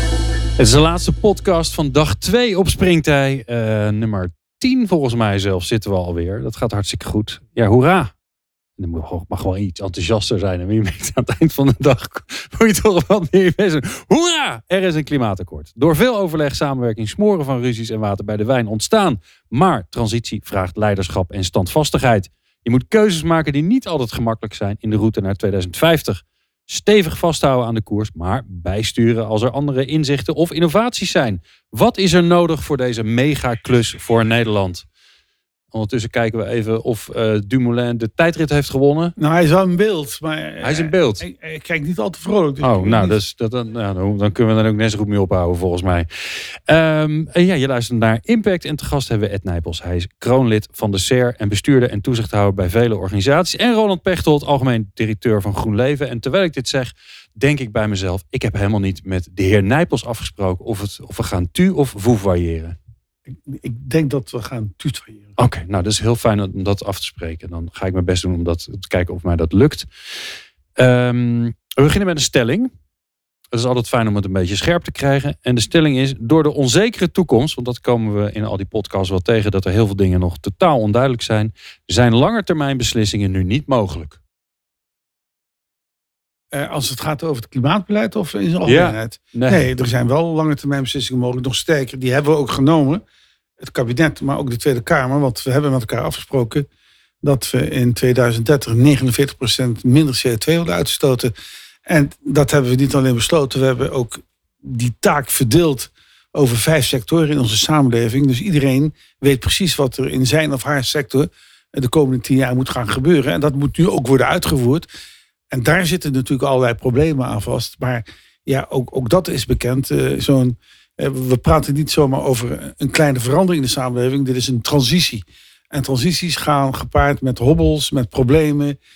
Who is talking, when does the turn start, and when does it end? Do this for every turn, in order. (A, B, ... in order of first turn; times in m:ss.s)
0:00.6-0:08.1 A
0:08.8-0:34.9 A
0:35.7-0:39.2 A
0:39.2-0:43.2 B
0:40.6-0:41.2 A
0:42.6-1:02.8 A
1:03.4-1:05.4 B
1:05.4-1:09.9 A
1:10.8-1:12.7 A
1:13.5-1:24.2 A
1:26.5-1:33.0 B
1:28.7-1:29.6 A
1:33.6-1:36.7 B
1:37.2-1:41.3 B
1:41.9-1:54.9 B
1:55.5-2:08.8 B